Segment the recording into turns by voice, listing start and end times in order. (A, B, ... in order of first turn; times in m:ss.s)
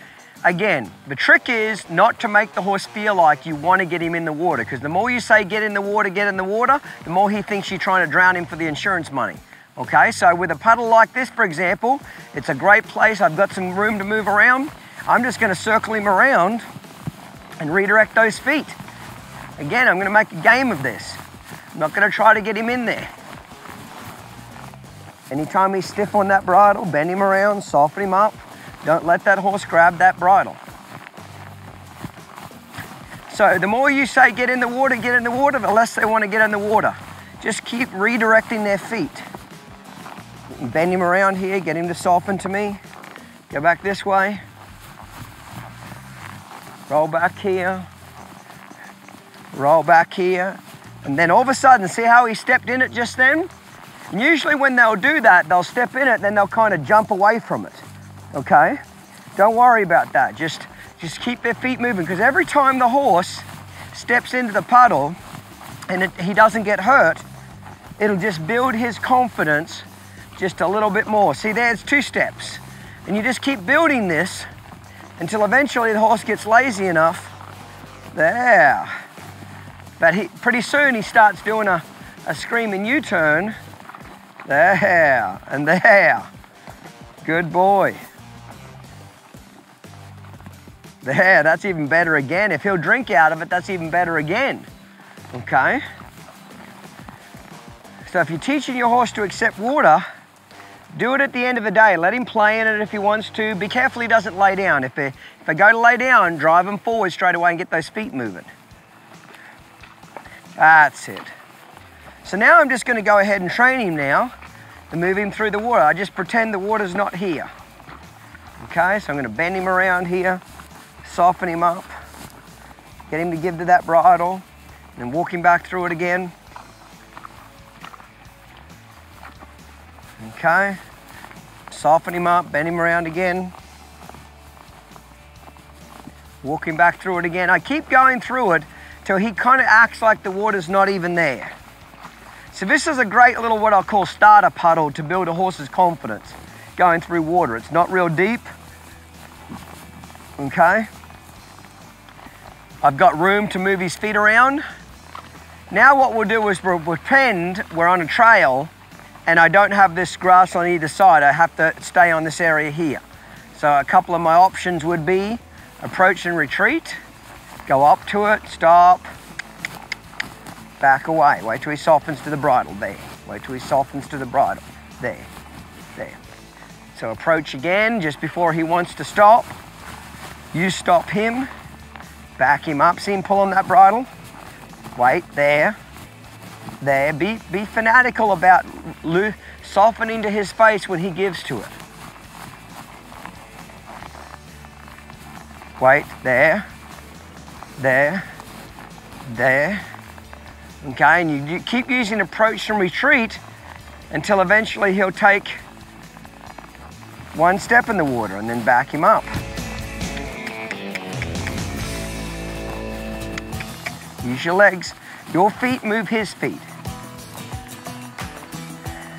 0:00.4-0:16.6 A
0:17.6-0:18.8 A
0:19.6-0:21.2 A
0:21.7-0:23.1 A
0:25.3-0:30.6 A
0:33.3-0:39.2 A
0:40.6-0:42.8 A
0:43.5-0:44.4 A
0:46.9-0:47.9 A
0:49.5-0:53.5 A
0:54.1-0:58.8 A
0:59.4-1:05.2 A
1:05.9-1:07.2 A
1:08.0-1:14.5 A
1:15.2-1:17.3 A
1:18.1-1:18.9 A
1:20.0-1:23.6 A
1:24.4-1:26.3 A
1:27.2-1:28.0 A
1:31.0-1:34.7 A
1:35.3-1:35.8 A
1:38.1-1:40.0 A
1:40.9-1:48.5 A
1:50.6-1:51.3 A
1:52.2-1:54.3 A
1:54.9-1:57.5 A
1:58.6-2:00.4 A
2:01.0-2:01.9 A
2:03.1-2:04.4 A
2:05.0-2:06.3 A
2:10.2-2:10.8 A
2:11.7-2:13.5 A
2:16.4-2:21.6 A
2:22.5-2:28.5 A
2:30.4-2:30.9 A
2:32.8-2:34.6 A
2:35.7-2:38.7 A
2:39.3-2:43.0 A
2:43.6-2:47.0 A
2:47.7-2:49.1 A
2:50.8-2:55.3 A
2:56.9-2:59.5 A
3:00.5-3:01.5 A
3:02.4-3:04.1 A
3:05.0-3:05.8 A
3:06.8-3:11.8 A
3:15.8-3:16.7 A
3:17.8-3:18.2 A
3:19.3-3:19.8 A
3:20.8-3:23.4 A
3:24.1-3:25.6 A
3:27.3-3:29.3 A
3:34.2-3:36.7 A